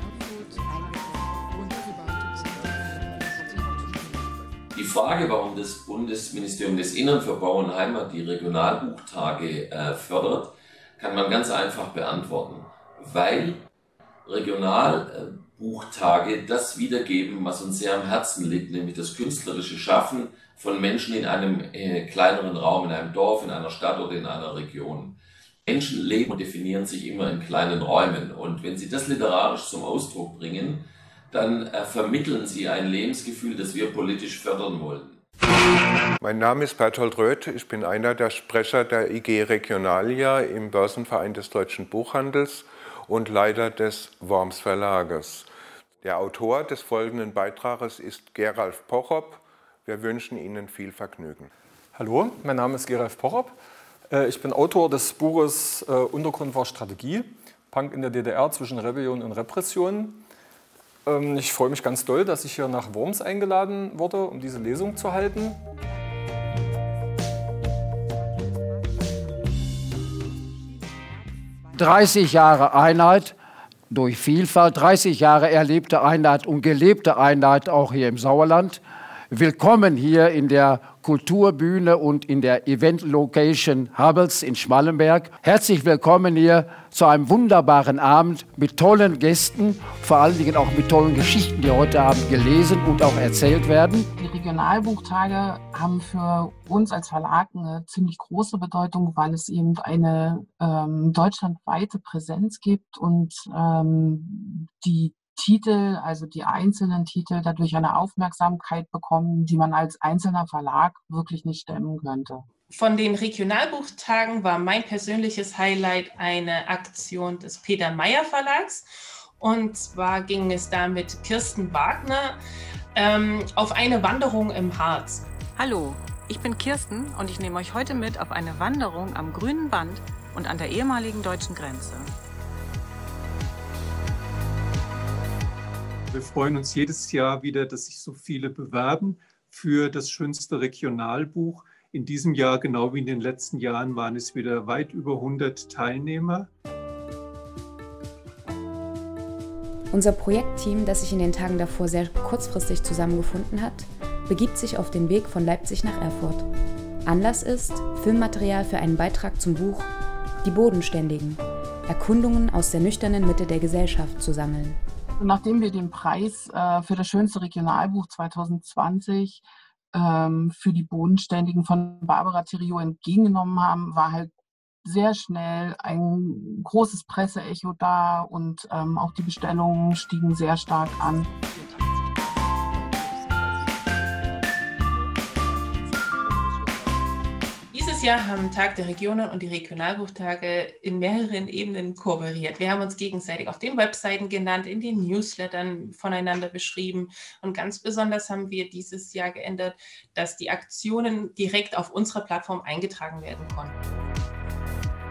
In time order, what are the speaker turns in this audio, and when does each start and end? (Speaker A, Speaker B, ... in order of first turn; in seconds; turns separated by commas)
Speaker A: 4.8-13.7, Speaker A: 14.3-35.2, Speaker B: 36.2-45.5, Speaker B: 46.0-51.5, Speaker C: 52.0-53.6, Speaker C: 54.1-60.2, Speaker C: 61.1-65.6, Speaker D: 71.8-73.3, Speaker D: 73.9-94.1, Speaker E: 94.2-112.5, Speaker F: 112.7-118.9, Speaker F: 119.4-122.4, Speaker F: 123.0-125.3, Speaker G: 125.6-132.1, Speaker H: 136.1-146.5, Speaker I: 149.9-156.5, Speaker I: 157.1-159.9, Speaker I: 160.4-164.8, Speaker E: 165.2-174.3, Speaker E: 174.8-181.3, Speaker F: 187.7-203.8